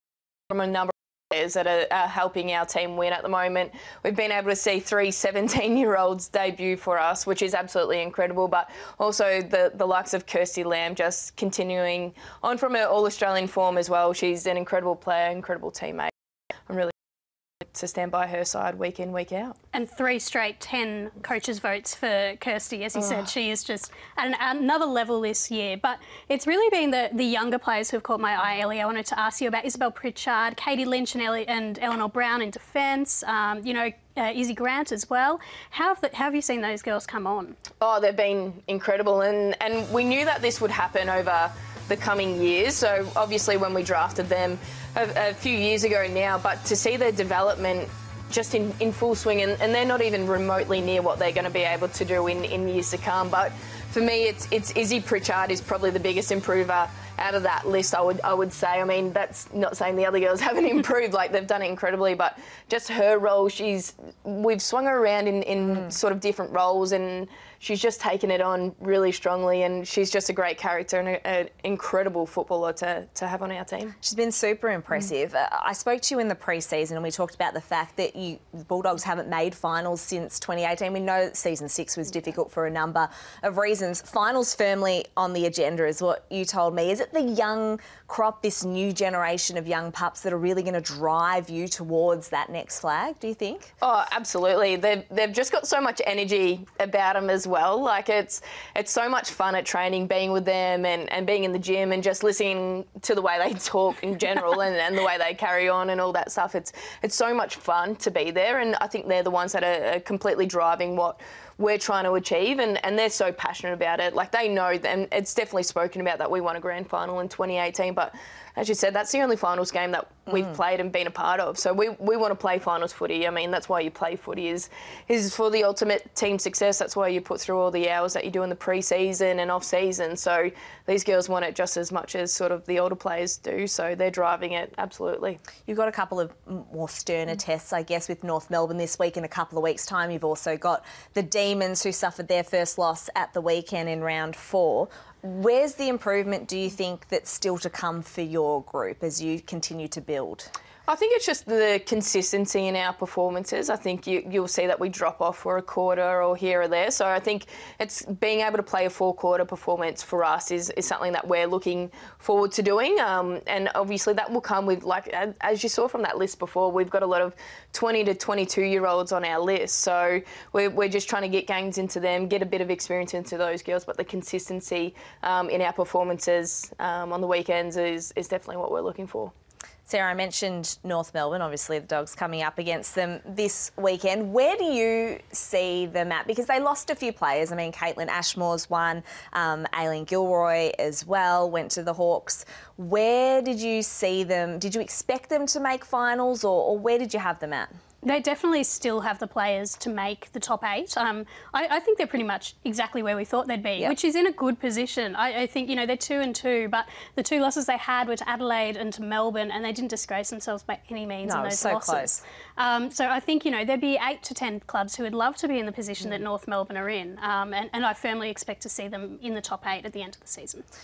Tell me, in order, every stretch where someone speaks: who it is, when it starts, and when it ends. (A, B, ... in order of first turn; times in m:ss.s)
0:00.5-0:16.1 A
0:16.7-0:16.9 A
0:17.7-0:19.6 A
0:19.7-0:37.6 B
0:37.8-1:14.0 A
1:14.0-1:33.7 C
1:33.8-2:15.4 A
2:15.6-2:30.5 C
2:30.9-2:59.3 A
2:59.9-3:17.7 C
3:18.0-3:40.6 B
3:31.2-3:32.2 C